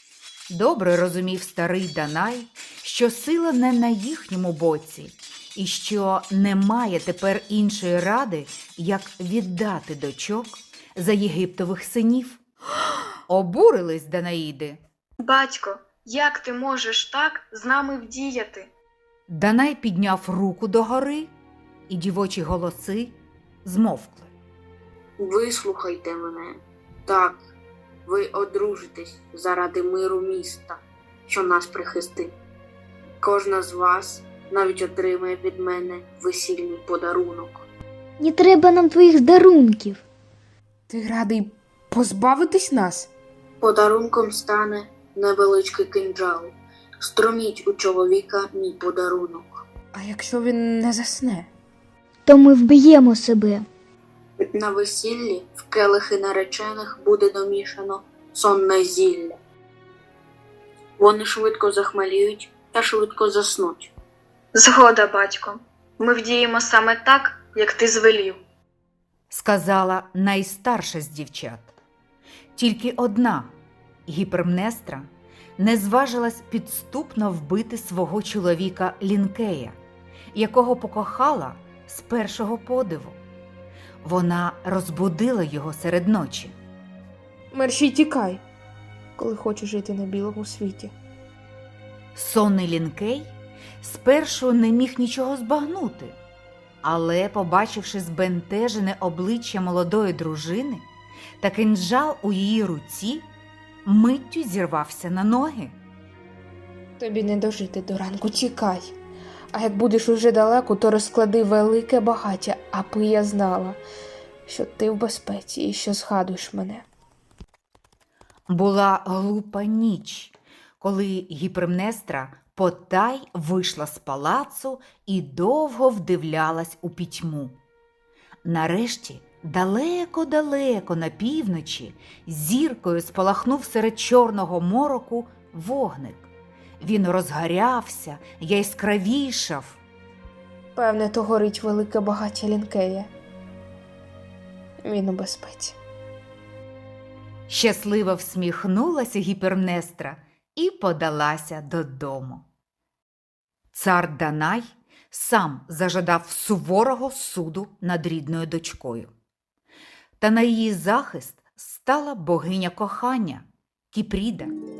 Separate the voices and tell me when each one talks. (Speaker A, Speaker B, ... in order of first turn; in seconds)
Speaker A: 0.5-12.4, 13.3-14.8, 19.3-21.3, 21.9-24.3, 69.3-71.7, 72.6-73.5, 74.1-79.8, 80.3-83.2, 84.0-86.5, 92.2-96.2, 96.8-100.8, 101.4-103.3, 103.8-105.8, 118.5-127.6, 128.4-136.3, 136.8-139.8, 147.5-152.4, 153.7-159.1, 160.2-164.5
Speaker B: 15.2-18.7, 64.5-68.4
Speaker C: 25.2-27.4, 28.1-32.4, 33.2-37.7, 43.6-49.6, 54.5-59.4, 61.0-63.9
Speaker D: 38.2-40.0, 52.3-53.7
Speaker E: 40.9-43.1, 49.9-51.5, 87.5-88.4, 89.2-90.9, 107.0-108.9, 109.5-113.8, 114.5-116.8, 140.8-143.1, 144.8-145.8